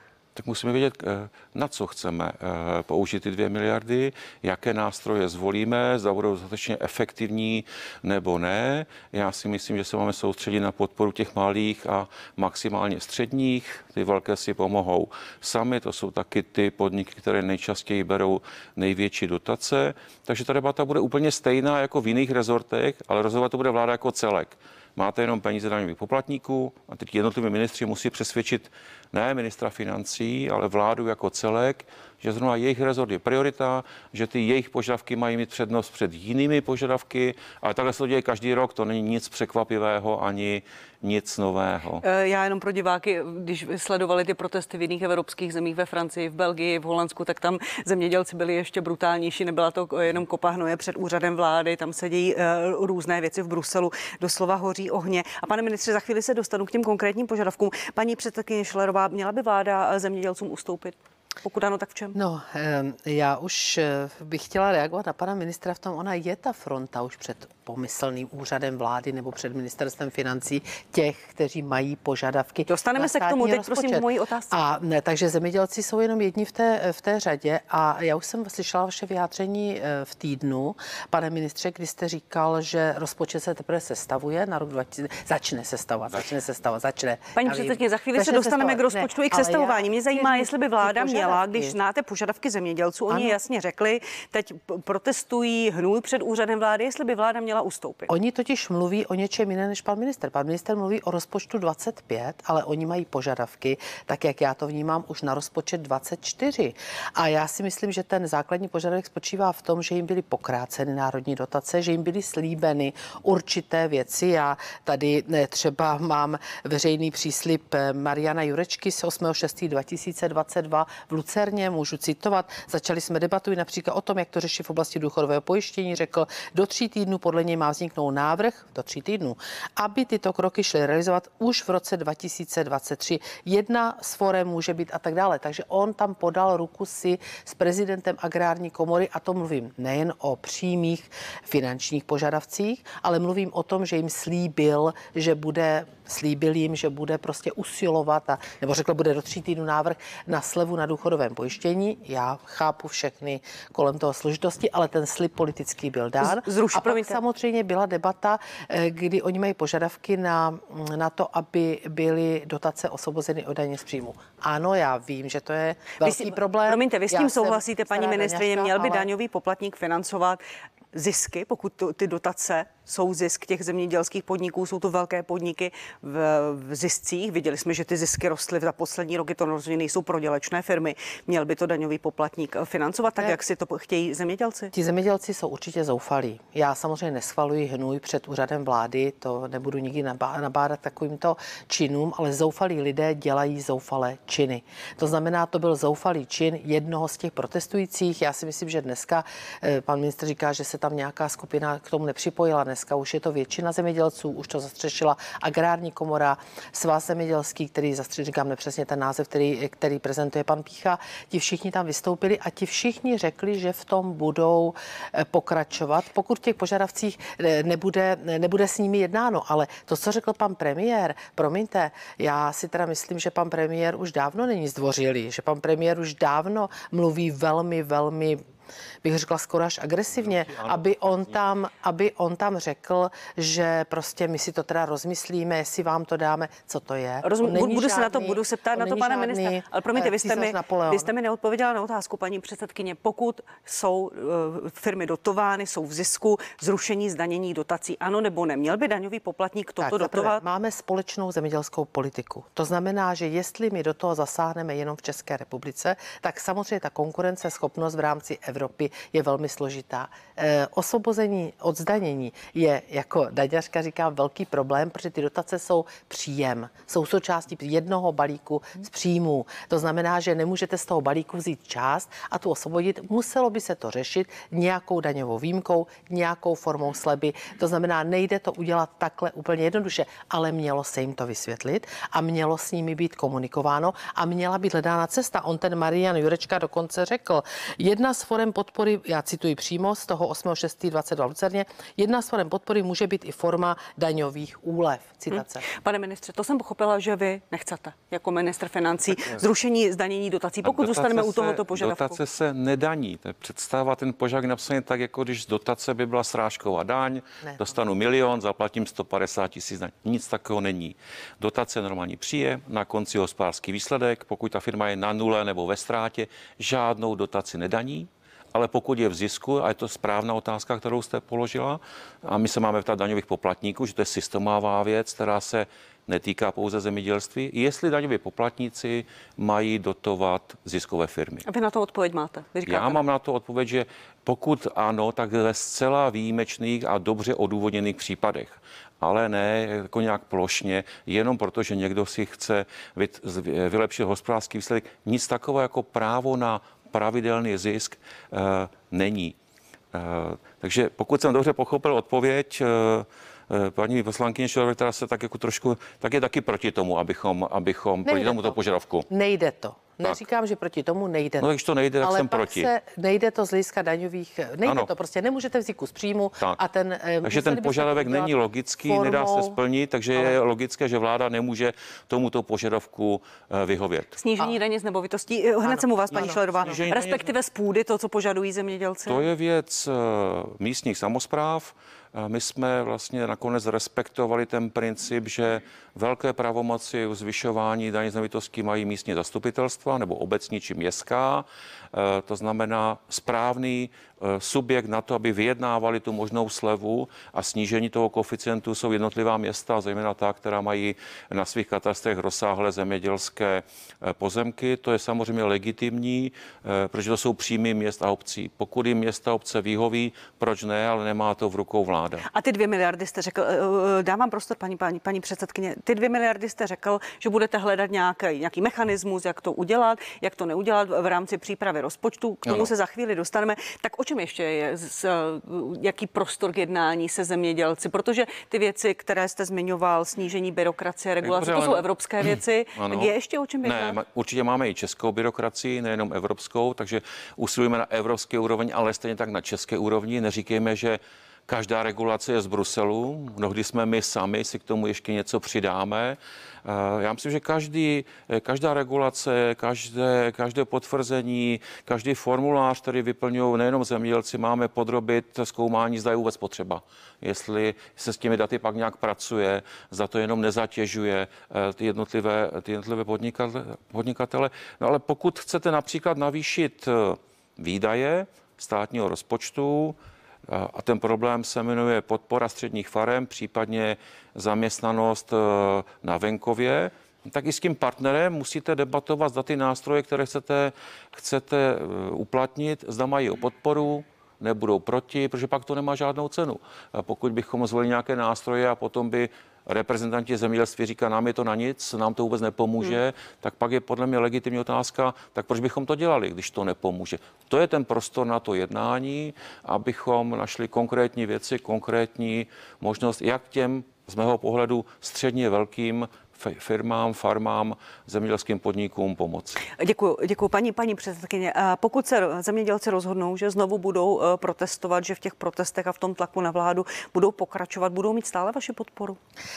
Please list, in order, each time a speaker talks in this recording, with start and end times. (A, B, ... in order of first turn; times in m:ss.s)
0:00.4-0:42.0 A
0:42.0-1:02.2 B
1:02.1-1:31.8 C
1:12.7-1:14.5 B
1:27.4-1:38.1 B
1:33.1-1:33.4 C
1:38.1-2:49.1 C
2:36.2-2:37.2 B
2:46.0-2:50.4 B
2:50.9-3:04.7 B
3:04.7-3:48.4 C
3:49.0-4:01.1 C
3:50.2-3:51.4 A
3:57.2-4:10.4 B
4:09.8-4:55.6 C
4:55.3-5:02.2 B
5:00.6-5:31.5 A
5:31.5-5:33.0 B
5:32.7-5:49.4 A
5:49.9-5:59.1 A
5:58.0-5:58.6 C
5:59.1-6:01.5 C
6:01.4-6:02.7 A
6:02.0-6:08.3 C
6:04.6-6:04.9 A
6:07.2-6:14.2 A
6:08.9-6:09.6 C
6:14.2-6:19.3 B
6:15.6-6:16.8 C
6:16.5-6:17.3 A
6:19.1-6:52.3 A
6:52.3-7:14.0 B
7:11.2-7:50.0 A
7:50.5-8:29.6 A
8:29.7-8:39.2 B